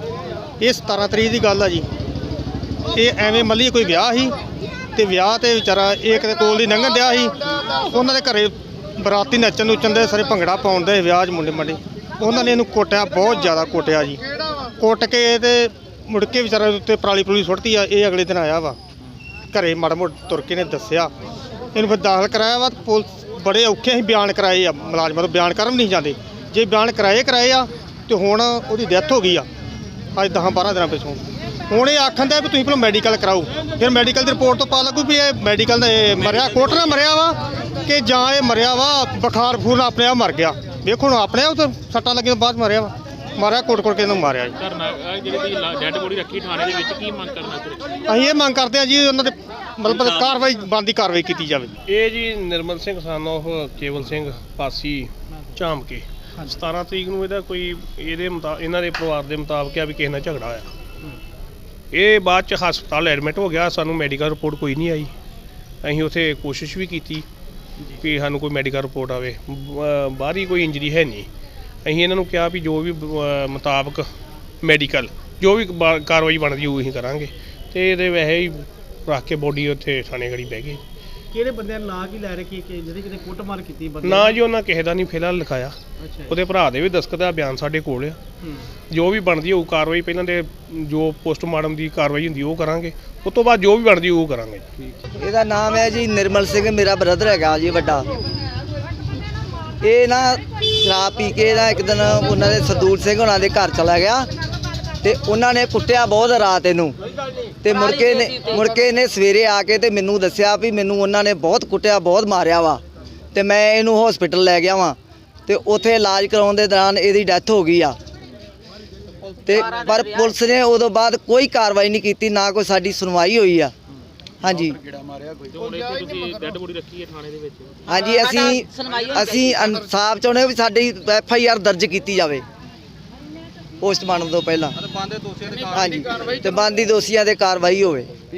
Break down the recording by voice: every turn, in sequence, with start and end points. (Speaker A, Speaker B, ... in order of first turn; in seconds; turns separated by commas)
Speaker A: 0.6-1.9, Speaker A: 2.9-4.3, Speaker A: 5.0-7.3, Speaker A: 7.9-14.2, Speaker A: 14.8-18.8, Speaker A: 19.5-21.1, Speaker A: 21.8-29.5, Speaker A: 30.2-44.5, Speaker B: 44.6-47.9, Speaker A: 48.1-51.7, Speaker C: 50.0-50.3, Speaker C: 51.9-60.7, Speaker C: 61.9-65.1, Speaker C: 65.8-67.2, Speaker C: 67.9-71.3, Speaker C: 71.8-74.0, Speaker C: 74.6-80.8, Speaker D: 81.3-84.3, Speaker C: 84.0-85.8, Speaker C: 86.3-88.2, Speaker C: 88.9-94.9, Speaker E: 95.2-98.1, Speaker E: 99.8-104.3, Speaker E: 105.0-107.0, Speaker E: 107.6-112.8, Speaker E: 113.3-118.0, Speaker E: 119.5-123.7, Speaker E: 124.4-124.8, Speaker B: 125.4-127.9, Speaker E: 127.9-132.4, Speaker E: 133.8-134.8, Speaker E: 135.6-138.1